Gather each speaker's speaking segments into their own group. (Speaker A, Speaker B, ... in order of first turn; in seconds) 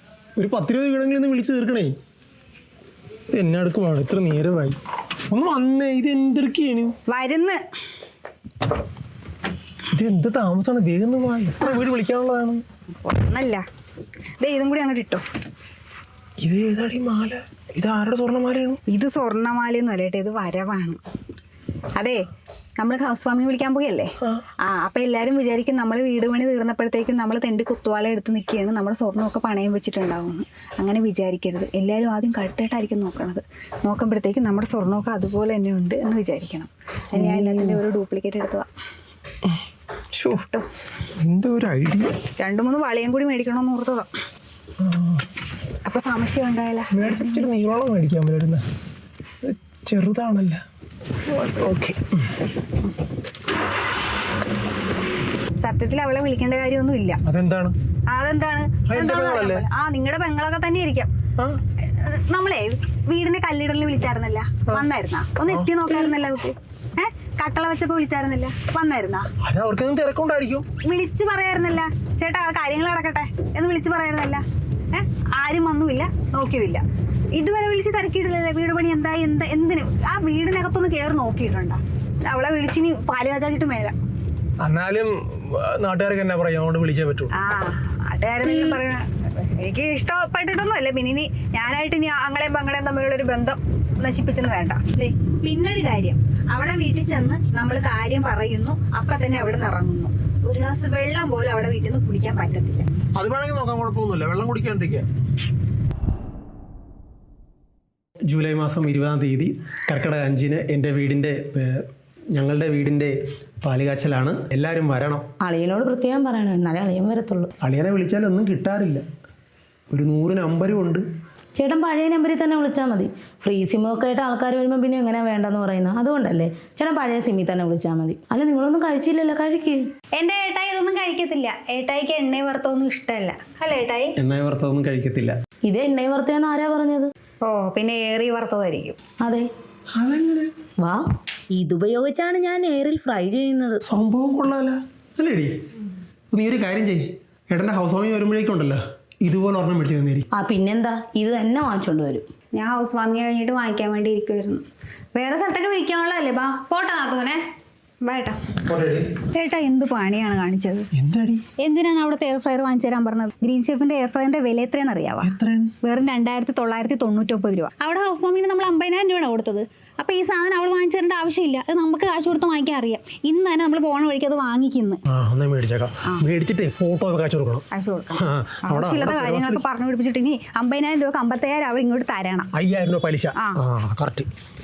Speaker A: 0.4-1.9, 3.3-4.8, 5.3-7.0, 9.9-12.6, 16.4-18.8, 37.4-37.8, 40.1-40.5, 41.2-42.2, 44.8-45.2, 46.9-48.6, 49.4-50.6, 51.3-52.2, 57.2-57.8, 58.9-59.6, 69.4-70.7, 84.6-87.3, 103.2-105.1, 108.3-115.3, 117.6-119.0, 119.9-121.0, 134.2-135.4, 139.9-140.5, 143.8-145.5, 146.3-150.3, 158.6-159.1, 160.9-161.5, 165.2-165.7, 175.1-179.6, 182.5-184.3
Speaker B: 7.1-7.6, 13.0-13.6, 14.4-15.2, 18.9-21.0, 22.0-22.2, 22.8-38.7, 40.3-40.7, 42.4-44.1, 45.9-47.5, 55.6-57.2, 58.1-61.1, 62.0-69.3, 70.8-76.8, 77.3-84.0, 87.3-102.9, 130.2-134.2, 137.4-139.0, 152.6-157.4, 158.0-158.4, 159.3-160.9, 161.6-175.0, 177.7-182.5
Speaker C: 115.4-117.5, 121.5-129.8, 135.7-137.1, 139.2-139.5, 140.8-143.8, 150.3-152.3